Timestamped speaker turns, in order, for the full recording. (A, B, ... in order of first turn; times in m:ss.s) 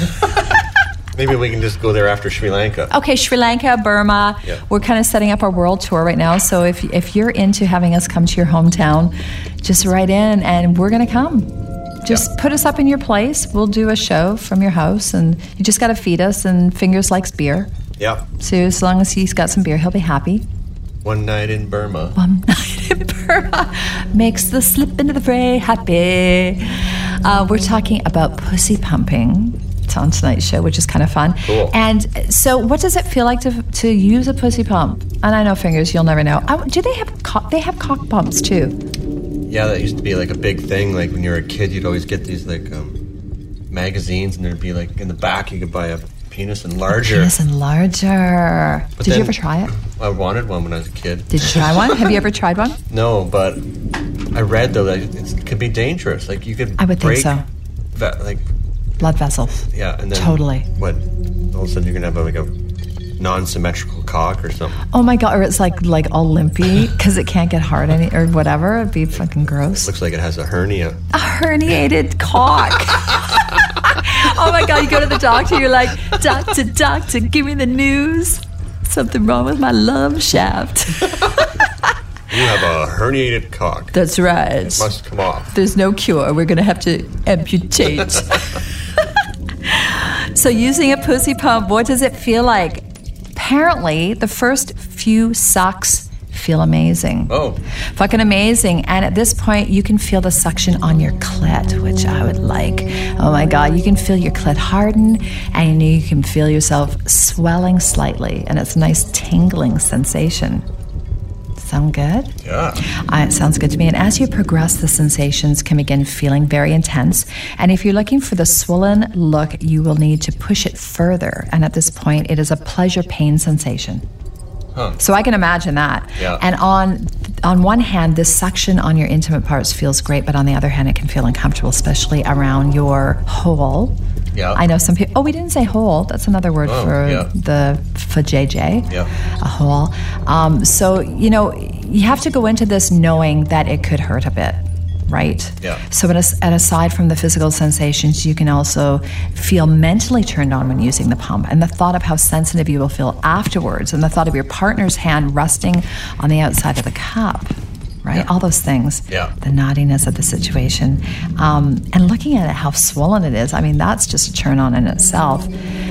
0:01.1-0:02.9 A
0:02.9-0:11.5 B
0:12.0-0:17.7 B
0:18.0-0:18.2 A
0:18.4-0:20.4 B
0:21.0-0:22.2 A
0:22.2-0:38.8 B
0:31.4-0:31.8 A
0:39.5-0:43.0 A
0:43.7-0:47.3 A
0:46.9-0:49.7 B
0:49.0-0:52.2 A
0:51.3-0:52.8 B
0:52.9-0:53.6 A
0:54.3-0:57.4 A
0:56.8-0:57.4 B
0:57.9-0:58.4 A
0:59.0-1:00.7 B
0:59.6-1:02.5 A
1:03.2-1:04.8 A
1:04.9-1:09.9 B
1:09.1-1:11.0 A
1:11.1-1:21.6 B
1:22.3-1:24.0 A
1:23.9-1:24.9 B
1:24.7-1:25.5 A
1:25.5-1:28.6 B
1:29.7-1:37.3 B
1:37.3-1:37.6 A
1:38.0-1:50.6 B
1:51.6-1:52.3 B
1:52.4-1:52.8 A
1:53.0-2:04.0 B
2:05.0-2:14.0 B
2:14.3-2:14.6 A
2:14.5-2:45.5 B
2:16.6-2:17.3 A